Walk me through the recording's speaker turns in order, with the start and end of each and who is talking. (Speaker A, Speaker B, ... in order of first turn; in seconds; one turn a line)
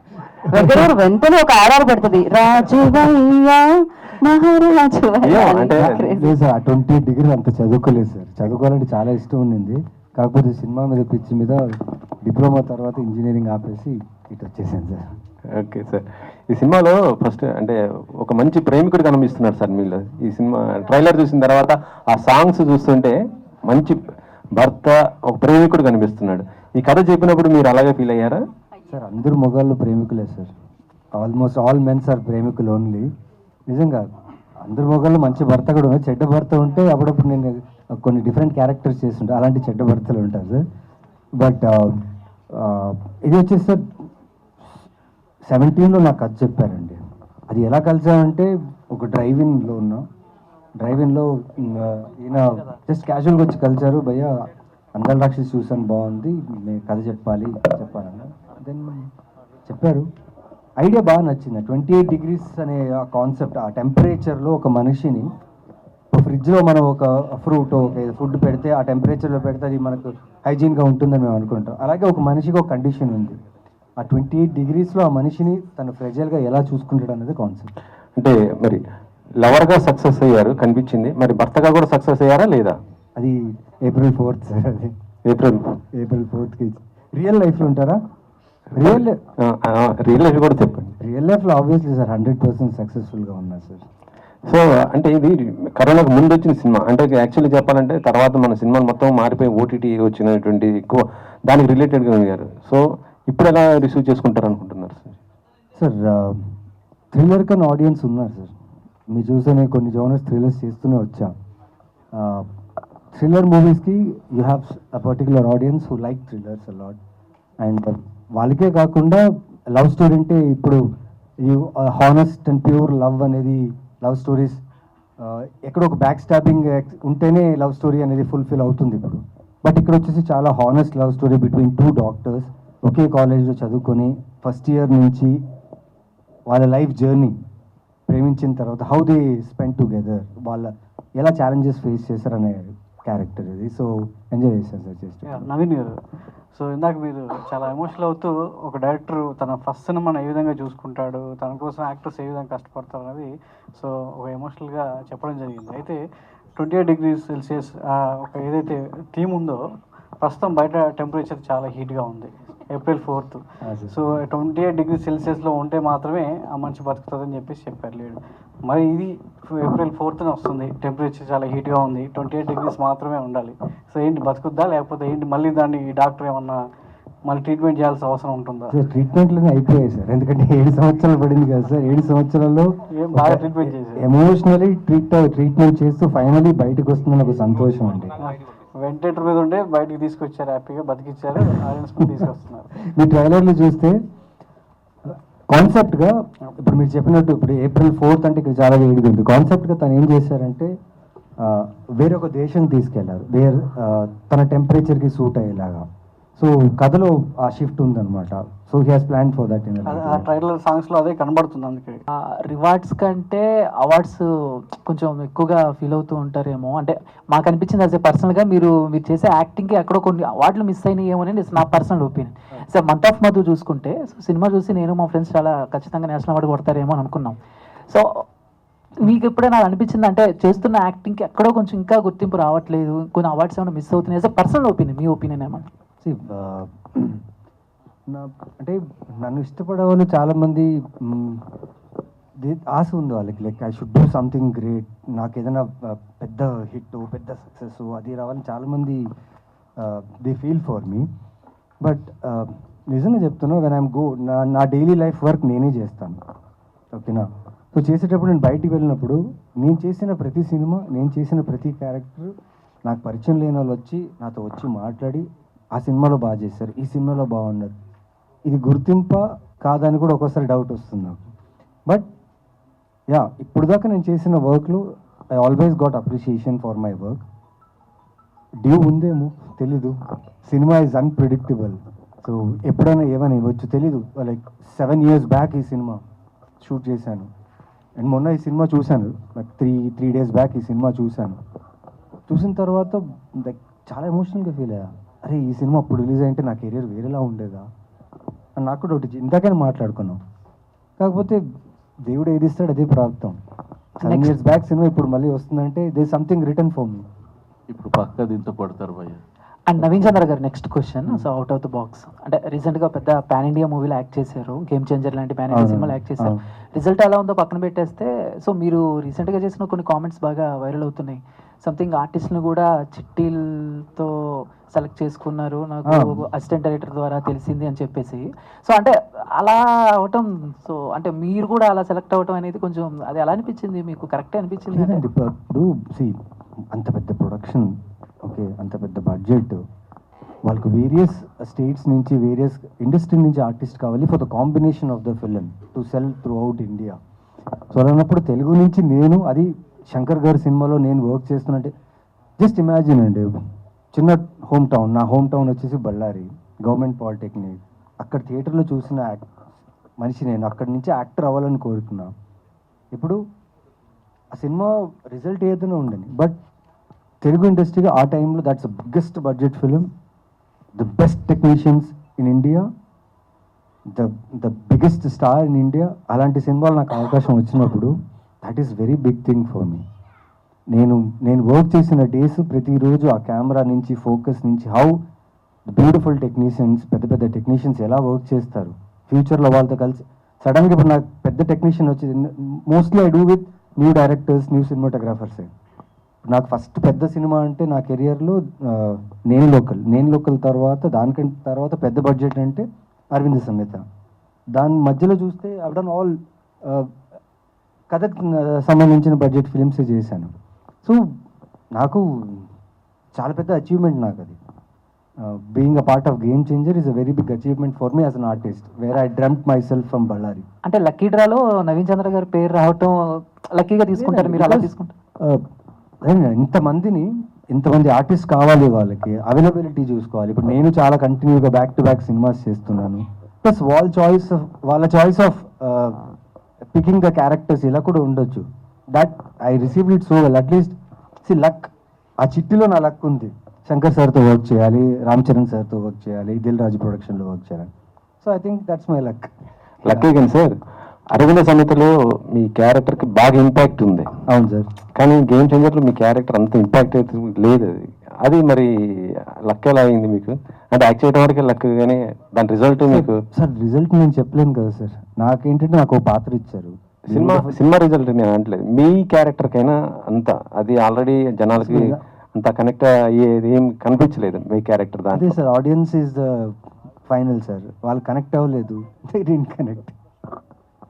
Speaker A: 0.5-0.9
Speaker B: 0.5-6.3
Speaker C: 5.2-6.0
Speaker A: 5.7-11.6
Speaker A: 12.2-15.1
Speaker C: 15.6-24.0
Speaker C: 24.6-28.4
Speaker A: 28.9-30.5
Speaker A: 31.1-33.0
Speaker A: 33.7-34.0
Speaker A: 34.6-40.6
Speaker A: 41.4-42.0
Speaker A: 42.5-43.8
Speaker A: 45.5-47.0
Speaker A: 47.5-50.0
Speaker A: 50.8-59.1
Speaker A: 59.7-60.0
Speaker A: 60.8-65.3
Speaker A: 66.1-73.4
Speaker A: 74.0-77.7
Speaker C: 78.2-78.8
Speaker C: 79.4-82.7
Speaker A: 83.2-84.9
Speaker C: 85.3-85.6
Speaker A: 85.9-88.0
Speaker A: 88.8-89.2
Speaker C: 88.8-90.9
Speaker A: 91.0-93.8
Speaker C: 94.5-105.2
Speaker A: 105.8-106.5
Speaker A: 107.1-108.5
Speaker A: 109.1-111.3
Speaker A: 112.1-112.5
Speaker A: 113.1-117.0
Speaker A: 117.6-120.8
Speaker A: 121.4-124.6
Speaker A: 125.2-135.3
Speaker A: 136.5-137.3
Speaker A: 138.1-145.4
Speaker D: 145.2-145.9
Speaker D: 146.5-156.0
Speaker D: 156.6-159.6
Speaker D: 160.2-176.6
Speaker A: 163.6-163.9
Speaker D: 177.2-178.7
Speaker A: 178.7-188.1
Speaker D: 182.9-184.0
Speaker D: 188.2-192.7
Speaker A: 192.9-194.0
Speaker A: 195.1-200.7
Speaker A: 201.4-205.8
Speaker A: 206.4-210.2
Speaker D: 209.8-212.0
Speaker E: 212.1-214.2
Speaker E: 214.8-227.4
Speaker E: 229.0-235.6
Speaker A: 236.0-237.2
Speaker A: 238.1-241.4
Speaker A: 242.4-249.1
Speaker A: 249.8-251.1
Speaker A: 251.8-256.2
Speaker A: 256.9-262.3
Speaker A: 262.9-267.7
Speaker A: 268.5-271.2
Speaker A: 273.1-274.8
Speaker A: 275.4-277.2
Speaker A: 278.6-279.9
Speaker A: 280.4-286.0
Speaker A: 286.6-287.3
Speaker A: 288.0-291.4
Speaker A: 292.3-297.6
Speaker A: 298.6-300.2
Speaker A: 301.0-301.4
Speaker A: 302.1-303.4
Speaker E: 304.0-304.4
Speaker A: 304.0-307.0
Speaker F: 307.7-309.2
Speaker E: 309.7-324.1
Speaker F: 309.8-310.2
Speaker A: 315.5-316.4
Speaker E: 324.7-335.0
Speaker A: 325.9-326.2
Speaker A: 334.7-336.1
Speaker A: 336.7-337.7
Speaker A: 338.2-339.6
Speaker A: 340.4-347.0
Speaker A: 347.7-351.7
Speaker A: 352.4-353.3
Speaker A: 353.9-359.2
Speaker A: 360.0-362.1
Speaker A: 364.3-366.4
Speaker A: 367.2-369.8
Speaker A: 370.8-372.6
Speaker A: 373.9-377.9
Speaker A: 378.4-379.8
Speaker A: 380.7-384.9
Speaker A: 385.7-395.5
Speaker A: 396.3-403.8
Speaker A: 404.5-406.1
Speaker A: 407.9-410.3
Speaker A: 411.7-412.5
Speaker A: 413.1-414.4
Speaker A: 415.2-420.4
Speaker E: 420.6-422.9
Speaker E: 423.5-424.9
Speaker A: 424.0-424.7
Speaker A: 426.1-436.0
Speaker A: 436.7-441.7
Speaker A: 442.2-447.7
Speaker A: 448.2-449.3
Speaker A: 449.8-450.1
Speaker C: 449.8-450.5
Speaker C: 451.1-454.1
Speaker A: 454.3-454.7
Speaker C: 454.9-458.7
Speaker C: 459.4-463.2
Speaker A: 462.9-467.5
Speaker C: 467.1-471.8
Speaker A: 471.6-472.0
Speaker C: 472.3-475.3
Speaker A: 475.1-476.5
Speaker A: 477.1-479.9